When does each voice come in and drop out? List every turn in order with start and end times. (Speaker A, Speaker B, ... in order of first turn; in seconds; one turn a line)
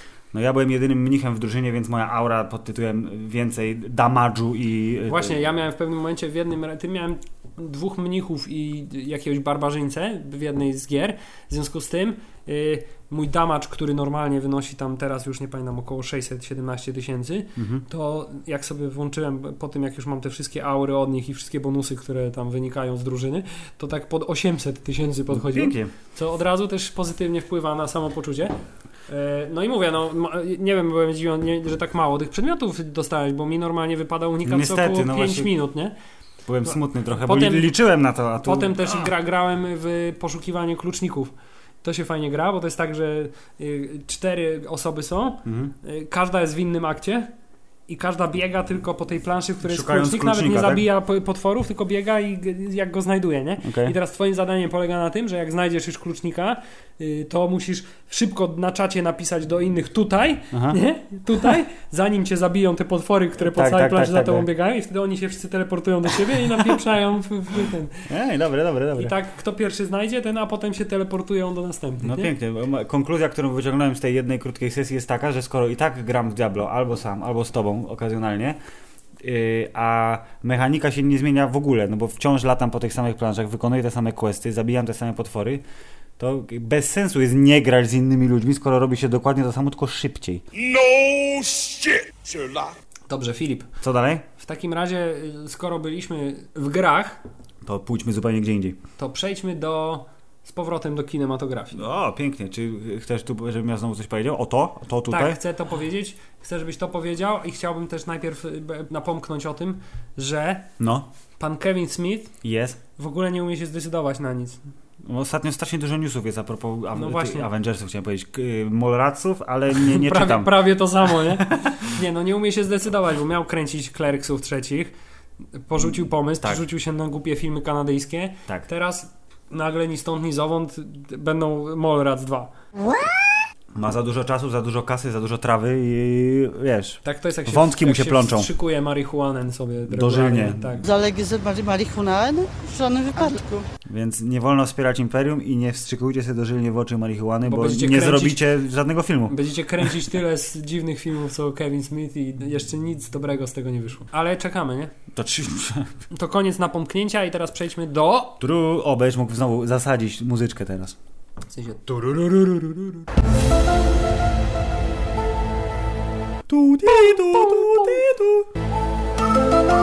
Speaker A: 0.3-5.4
Speaker B: 5.1-28.5
Speaker A: 17.6-17.8
Speaker A: 25.3-25.9
Speaker B: 29.1-35.9
Speaker A: 34.4-35.5
Speaker A: 36.5-39.0
Speaker B: 36.6-37.7
Speaker B: 38.4-47.3
Speaker A: 45.4-45.7
Speaker B: 47.9-68.0
Speaker A: 49.6-50.8
Speaker A: 53.6-53.9
Speaker A: 60.5-60.8
Speaker A: 63.4-64.5
Speaker A: 68.1-69.1
Speaker B: 69.0-72.3
Speaker A: 72.0-78.6
Speaker A: 79.2-85.6
Speaker A: 86.2-90.4
Speaker B: 93.1-93.7
Speaker A: 93.8-94.2
Speaker B: 94.4-97.2
Speaker A: 97.6-98.8
Speaker B: 99.0-101.8
Speaker A: 101.7-105.4
Speaker B: 105.1-110.7
Speaker A: 110.8-111.1
Speaker B: 111.4-112.3
Speaker A: 112.4-112.8
Speaker B: 113.0-114.6
Speaker A: 115.0-120.6
Speaker B: 116.9-117.5
Speaker B: 119.8-124.9
Speaker B: 125.7-132.5
Speaker A: 133.7-138.5
Speaker B: 137.0-140.8
Speaker A: 139.9-140.8
Speaker C: 140.8-143.6
Speaker A: 143.9-149.4
Speaker B: 147.4-148.4
Speaker B: 149.3-154.9
Speaker A: 155.1-155.9
Speaker B: 156.1-158.4
Speaker A: 158.4-160.9
Speaker B: 161.5-161.9
Speaker A: 161.9-162.9
Speaker A: 166.5-168.4